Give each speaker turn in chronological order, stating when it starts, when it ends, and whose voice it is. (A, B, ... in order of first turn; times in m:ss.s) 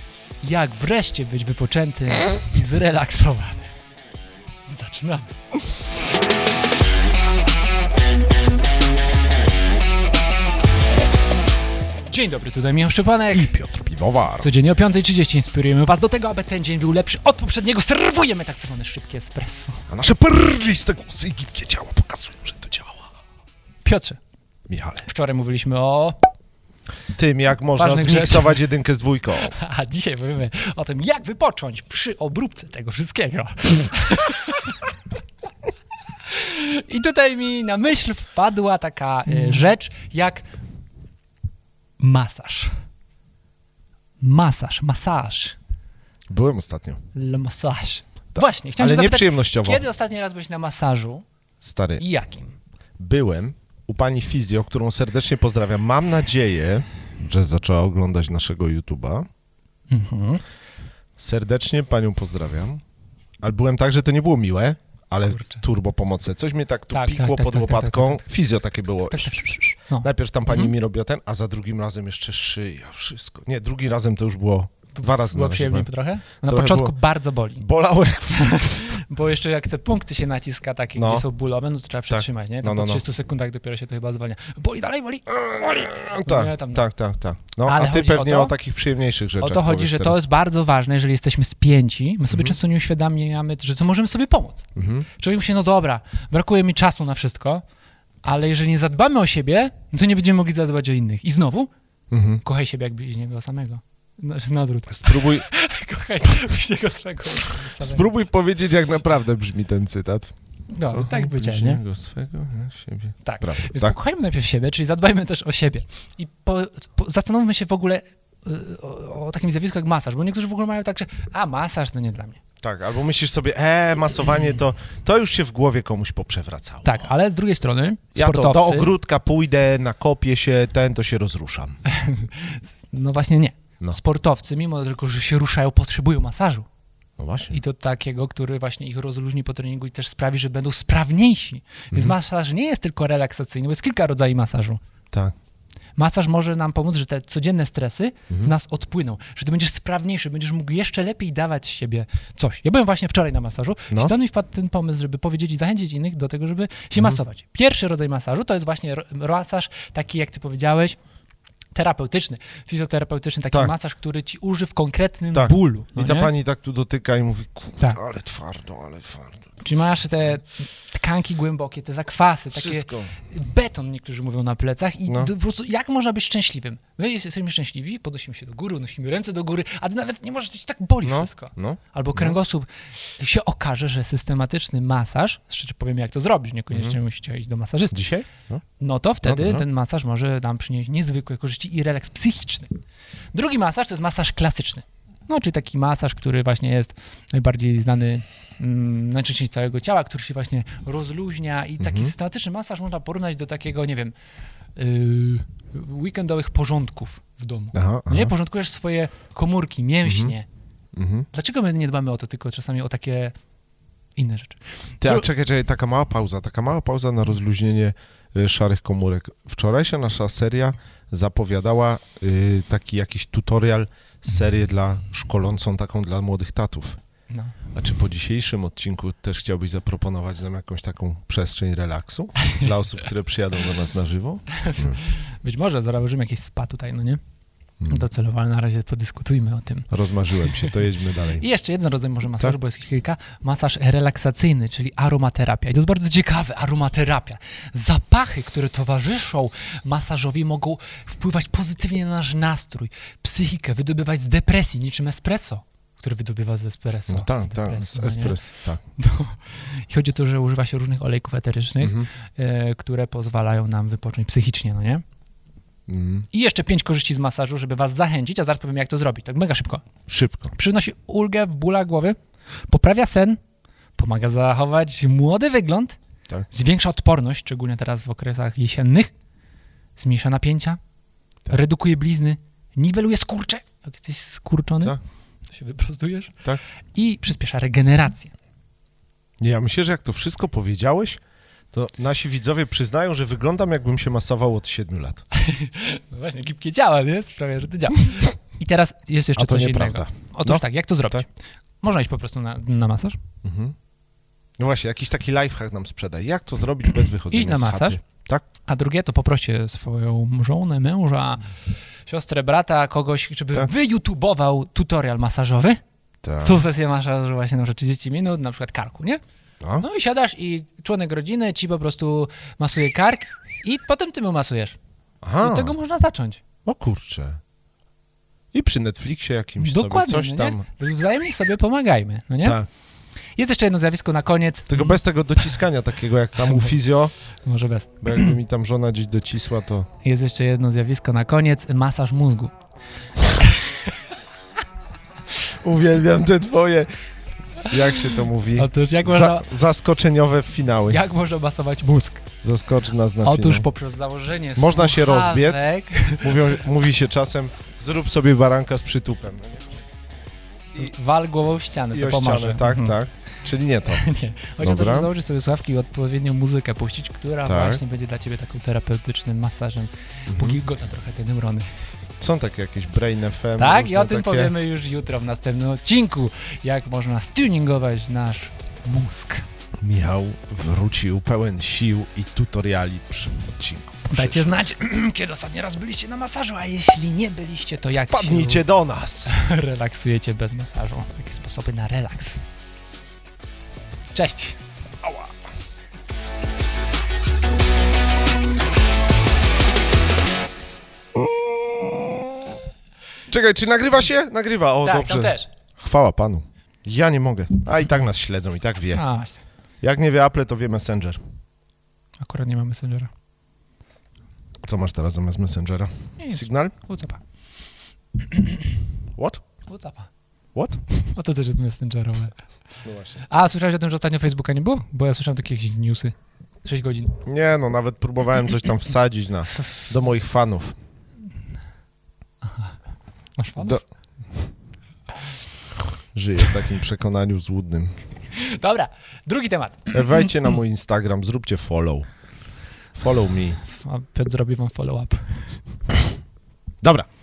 0:00.4-0:03.7 A
0:04.7-0:05.3 A
0:12.1-0:13.5 A
0:13.3-0:14.5 B
0:14.4-0:19.8 A
0:19.9-0:23.1 B
0:23.8-0:24.2 A
0:24.7-0:25.0 B
0:25.0-0:26.2 A
0:27.2-0:29.5 B
0:27.8-0:28.6 A
0:29.4-0:34.9 A
0:36.2-0:40.4 A
0:42.0-0:42.7 A
0:44.2-0:45.6 A
0:46.3-0:47.0 B
0:47.1-0:51.2 A
0:48.3-0:49.8 B
0:51.6-0:52.0 B
0:52.0-0:52.5 A
0:53.0-0:59.2 B
0:59.9-1:00.4 A
1:01.2-1:02.8 B
1:03.4-1:15.9 B
1:05.3-1:05.6 A
1:06.9-1:08.3 A
1:09.1-1:10.7 A
1:15.0-1:17.7 A
1:16.4-1:16.9 B
1:17.6-1:19.0 B
1:18.3-1:26.8 A
1:21.0-1:21.2 B
1:22.1-1:23.0 B
1:25.3-1:30.2 B
1:27.6-1:28.6 A
1:29.4-1:34.6 A
1:32.3-1:32.6 B
1:34.8-1:35.1 B
1:35.2-1:37.6 A
1:38.2-1:41.7 A
1:42.1-1:42.4 B
1:42.4-1:48.0 A
1:44.9-1:45.4 B
1:47.8-1:50.3 B
1:50.7-1:51.8 A
1:50.9-1:54.0 B
1:53.2-2:02.4 A
2:02.6-2:07.1 B
2:06.8-2:08.9 A
2:08.1-2:11.8 B
2:11.8-2:16.6 A
2:17.2-2:17.6 B
2:17.5-2:24.8 A
2:26.0-2:41.0 A
2:41.7-2:46.3 A
2:45.3-2:49.5 B
2:49.6-3:08.0 A
2:52.5-2:53.1 B
2:55.1-2:55.3 B
3:01.0-3:02.4 B
3:06.7-3:07.0 B
3:07.9-3:08.6 B
3:08.8-3:12.7 A
3:09.2-3:09.6 B
3:13.3-3:24.1 A
3:21.8-3:22.1 B
3:24.8-3:30.4 A
3:27.7-3:28.3 B
3:30.0-3:30.3 B
3:30.9-3:31.3 B
3:31.3-3:33.3 A
3:34.2-3:35.2 A
3:35.0-3:47.0 B
3:47.3-3:47.6 A
3:47.7-3:55.0 B
3:54.6-3:57.2 A
3:57.8-3:58.1 B
3:57.8-3:59.9 A
3:59.9-4:01.4 B
4:00.4-4:00.7 A
4:01.3-4:18.4 A
4:17.1-4:18.8 B
4:19.0-4:25.0 A
4:21.8-4:22.1 B
4:25.9-4:26.3 B
4:26.3-4:29.9 A
4:30.1-4:30.5 B
4:30.5-4:32.2 A
4:32.7-4:33.4 A
4:34.0-4:36.0 A
4:36.5-4:39.1 A
4:40.0-4:40.8 A
4:41.5-4:45.0 A
4:45.5-4:46.3 A
4:46.9-4:48.3 A
4:49.4-4:51.2 B
4:51.7-4:55.2 B
4:55.3-5:01.3 A
4:59.4-5:01.2 B
5:01.8-5:03.2 A
5:03.4-5:03.7 B
5:04.6-5:08.4 B
5:07.3-5:08.0 A
5:08.6-5:11.5 A
5:12.0-5:15.8 A
5:16.2-5:16.6 B
5:16.4-5:19.2 A
5:19.6-5:19.8 B
5:19.8-5:24.8 A
5:25.2-5:25.7 B
5:25.4-5:26.4 A
5:26.6-5:27.4 B
5:28.5-5:30.6 B
5:29.6-5:32.6 A
5:32.4-5:32.7 B
5:33.4-5:34.9 A
5:34.7-5:37.1 B
5:36.4-5:36.8 A
5:37.4-5:38.3 A
5:38.0-5:39.9 B
5:40.0-5:42.5 A
5:43.4-5:43.7 A
5:45.3-5:46.9 B
5:47.6-5:51.0 B
5:48.6-5:49.5 A
5:50.9-5:52.2 A
5:52.4-5:53.7 B
5:53.2-5:56.6 A
5:54.6-5:59.8 B
6:00.8-6:03.0 A
6:01.9-6:04.0 B
6:03.9-6:11.7 A
6:04.6-6:05.1 B
6:07.4-6:07.8 B
6:10.3-6:10.6 B
6:12.2-6:14.5 B
6:13.6-6:19.4 A
6:19.8-6:24.6 B
6:24.1-6:28.6 A
6:28.1-6:29.3 B
6:29.2-6:32.4 A
6:34.1-6:34.6 A
6:35.0-6:35.3 B
6:41.1-6:42.6 B
6:43.3-6:49.0 B
6:44.8-6:45.5 A
6:48.9-6:49.4 A
6:49.8-6:51.2 B
6:52.2-6:53.1 A
6:54.6-6:56.7 B
6:56.2-6:57.2 A
6:58.3-6:58.6 A
6:59.2-6:59.4 B
6:59.7-7:00.1 A
7:00.5-7:00.8 B
7:00.9-7:02.4 A
7:02.8-7:03.2 B
7:03.3-7:07.1 A
7:07.2-7:10.7 B
7:12.4-7:12.7 A
7:13.4-7:13.8 A
7:16.1-7:17.9 B
7:18.3-7:20.0 A
7:19.9-7:22.1 B
7:23.0-7:23.6 B
7:23.6-7:25.4 A
7:26.8-7:27.1 B